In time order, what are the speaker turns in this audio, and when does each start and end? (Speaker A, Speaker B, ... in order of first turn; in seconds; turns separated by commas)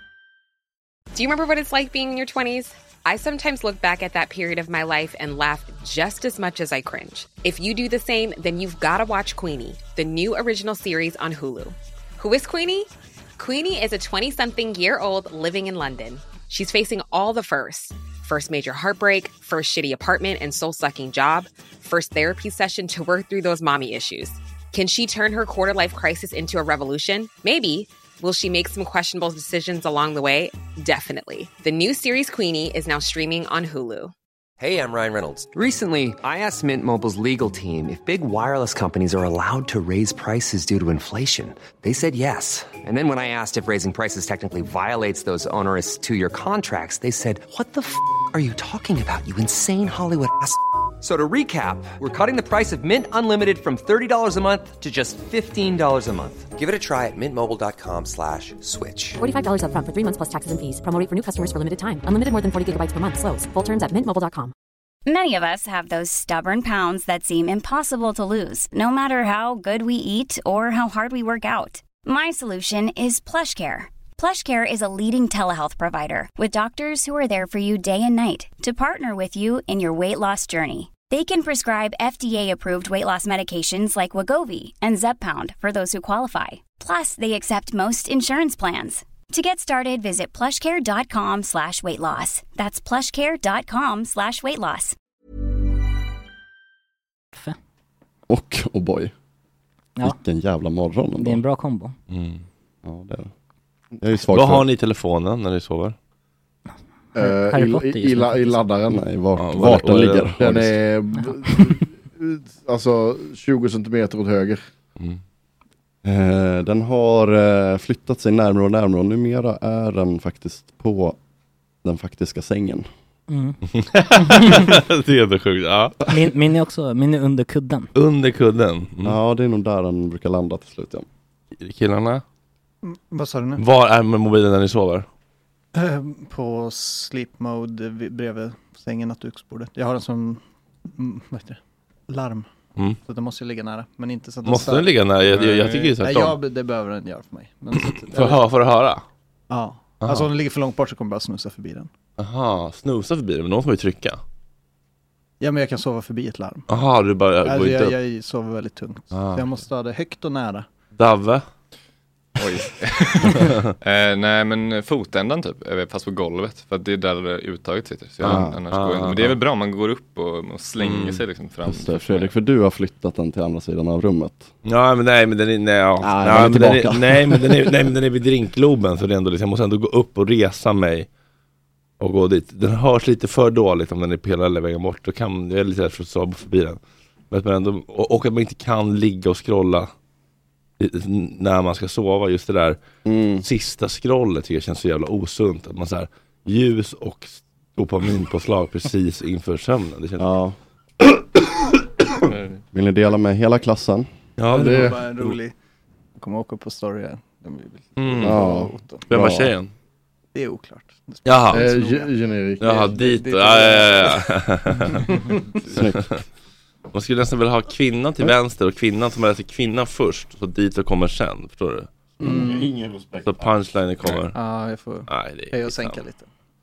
Speaker A: 1.1-34.1, Speaker B: 34.6-59.2, Speaker C: 59.2-64.5, Speaker D: 65.0-94.9, Speaker E: 98.3-99.1, Speaker E: 100.0-101.4, Speaker F: 101.2-101.9, Speaker G: 102.1-102.4, Speaker E: 102.8-103.3, Speaker E: 104.0-104.6, Speaker G: 104.3-106.0, Speaker F: 107.1-108.6, Speaker H: 107.2-109.0, Speaker E: 108.9-110.8, Speaker G: 109.4-110.3, Speaker H: 110.4-114.6, Speaker E: 116.0-121.2, Speaker E: 121.8-122.8, Speaker F: 123.3-123.6, Speaker G: 123.7-126.0, Speaker F: 124.2-124.6, Speaker F: 126.1-127.9, Speaker G: 127.9-129.2, Speaker E: 129.0-131.1, Speaker G: 131.6-132.2, Speaker I: 132.8-133.6, Speaker G: 133.6-135.1, Speaker I: 135.7-142.5, Speaker I: 143.1-145.0, Speaker G: 144.4-146.4, Speaker J: 145.2-145.9, Speaker I: 146.0-148.4, Speaker G: 147.7-149.0, Speaker I: 149.5-151.9, Speaker G: 150.0-150.3, Speaker G: 152.2-154.2, Speaker I: 155.4-156.6, Speaker G: 156.7-157.9, Speaker I: 157.4-160.7, Speaker G: 159.1-159.6, Speaker G: 160.9-161.4, Speaker J: 162.4-172.3, Speaker G: 163.3-163.7, Speaker E: 168.2-168.6, Speaker G: 168.2-169.4, Speaker G: 170.8-171.2, Speaker E: 171.6-174.5, Speaker G: 174.6-181.1, Speaker E: 176.0-177.7, Speaker G: 182.0-186.8, Speaker G: 187.3-189.9, Speaker G: 190.8-192.8, Speaker E: 193.0-193.4, Speaker G: 193.4-200.3, Speaker E: 200.2-200.6, Speaker E: 202.7-204.1, Speaker G: 204.4-205.4, Speaker I: 204.5-205.5, Speaker H: 204.6-204.9, Speaker I: 206.2-209.0, Speaker G: 208.0-208.4, Speaker E: 208.2-209.5, Speaker G: 209.1-209.7, Speaker I: 210.3-212.1, Speaker G: 211.2-211.7, Speaker H: 211.5-212.7, Speaker I: 212.6-214.2, Speaker G: 212.6-215.1, Speaker I: 214.9-215.3, Speaker E: 215.7-216.1, Speaker G: 215.7-216.2, Speaker G: 216.9-221.9, Speaker E: 222.2-222.5, Speaker I: 222.2-222.7, Speaker H: 222.4-223.2, Speaker G: 223.2-224.4, Speaker I: 224.1-226.3, Speaker G: 225.1-226.0